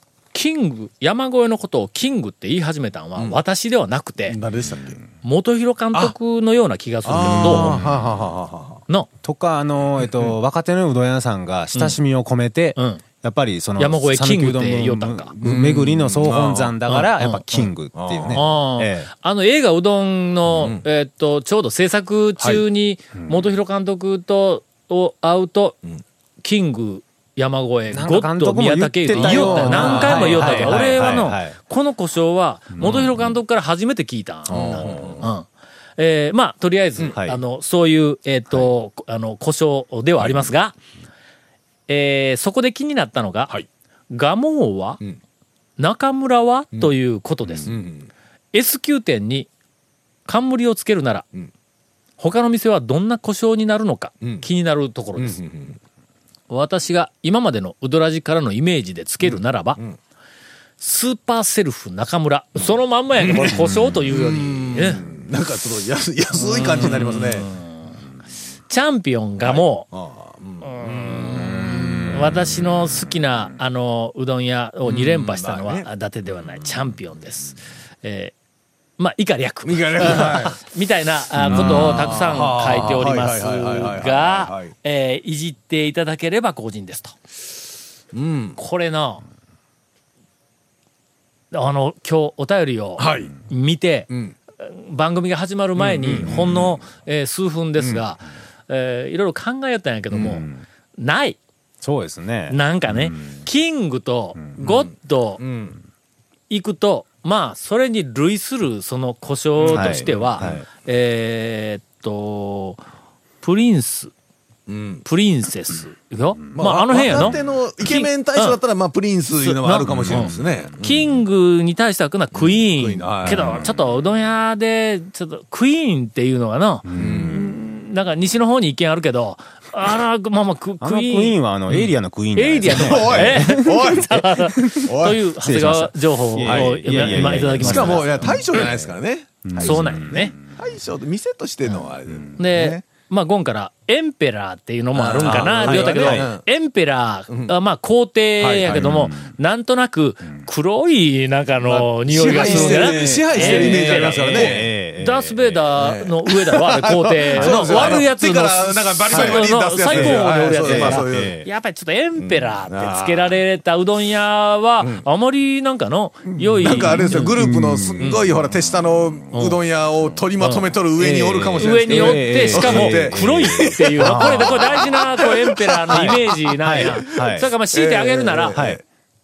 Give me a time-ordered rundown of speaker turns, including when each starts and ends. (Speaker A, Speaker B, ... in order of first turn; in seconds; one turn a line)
Speaker A: 0.3-4.4
Speaker B: 4.2-5.0
Speaker A: 5.2-7.7
Speaker B: 7.0-8.8
Speaker C: 7.2-8.0
Speaker C: 9.2-19.1
Speaker B: 10.0-10.3
Speaker A: 11.7-12.0
Speaker A: 12.8-13.0
Speaker A: 13.8-15.3
Speaker B: 15.4-16.7
Speaker A: 16.9-17.7
Speaker B: 17.9-18.5
Speaker A: 18.3-25.8
Speaker B: 20.6-20.8
Speaker B: 22.4-22.6
Speaker C: 23.1-23.4
Speaker A: 26.4-40.8
Speaker C: 27.9-31.6
Speaker B: 29.1-31.1
Speaker C: 32.7-33.3
Speaker C: 34.5-35.0
Speaker B: 34.5-35.2
Speaker C: 37.1-37.4
Speaker B: 40.2-40.5
Speaker A: 41.9-43.5
Speaker A: 44.1-45.0
Speaker A: 45.8-47.8
Speaker B: 47.5-48.1
Speaker A: 48.5-49.5
Speaker A: 50.2-51.3
Speaker A: 52.2-55.4
Speaker B: 55.2-55.8
Speaker A: 56.5-59.8
Speaker B: 59.2-60.0
Speaker A: 60.8-65.0
Speaker B: 63.2-67.5
Speaker A: 66.4-68.0
Speaker A: 68.7-69.9
Speaker B: 69.4-72.6
Speaker A: 70.6-78.3
Speaker B: 74.8-75.9
Speaker A: 79.0-87.2
Speaker B: 79.6-80.6
Speaker C: 81.4-82.1
Speaker B: 81.4-84.7
Speaker B: 88.1-88.6
Speaker A: 88.6-89.2
Speaker A: 91.5-101.4
Speaker B: 93.0-93.3
Speaker B: 94.1-94.3
Speaker B: 95.8-96.8
Speaker B: 97.8-98.0
Speaker C: 100.1-100.6
Speaker C: 101.8-103.4
Speaker A: 102.5-105.4
Speaker B: 104.6-105.8
Speaker A: 106.5-112.8
Speaker B: 109.6-110.6
Speaker C: 109.7-110.7
Speaker A: 113.4-114.1
Speaker B: 114.7-115.0
Speaker A: 115.0-118.6
Speaker B: 116.5-121.1
Speaker A: 119.3-131.4
Speaker C: 119.9-120.5
Speaker B: 122.3-123.7
Speaker C: 123.2-123.7
Speaker C: 126.8-127.5
Speaker B: 127.0-127.5
Speaker C: 130.8-134.8
Speaker A: 132.3-138.7
Speaker B: 132.6-134.2
Speaker B: 134.9-135.2
Speaker C: 135.4-138.9
Speaker B: 136.4-142.8
Speaker C: 139.4-140.4
Speaker A: 139.6-140.3
Speaker C: 142.1-142.3
Speaker A: 142.4-167.4
Speaker B: 144.9-146.4
Speaker C: 145.2-146.3
Speaker B: 148.4-148.9
Speaker C: 148.7-149.3
Speaker B: 151.6-154.6
Speaker C: 152.2-155.7
Speaker B: 155.8-161.4
Speaker C: 157.3-158.1
Speaker C: 159.1-161.5
Speaker B: 162.2-163.4
Speaker C: 166.4-168.2
Speaker B: 166.6-178.8
Speaker A: 168.0-168.2
Speaker A: 169.3-169.6
Speaker A: 170.4-170.7
Speaker C: 171.0-174.9
Speaker A: 171.6-178.6
Speaker C: 175.9-177.5
Speaker C: 178.5-178.8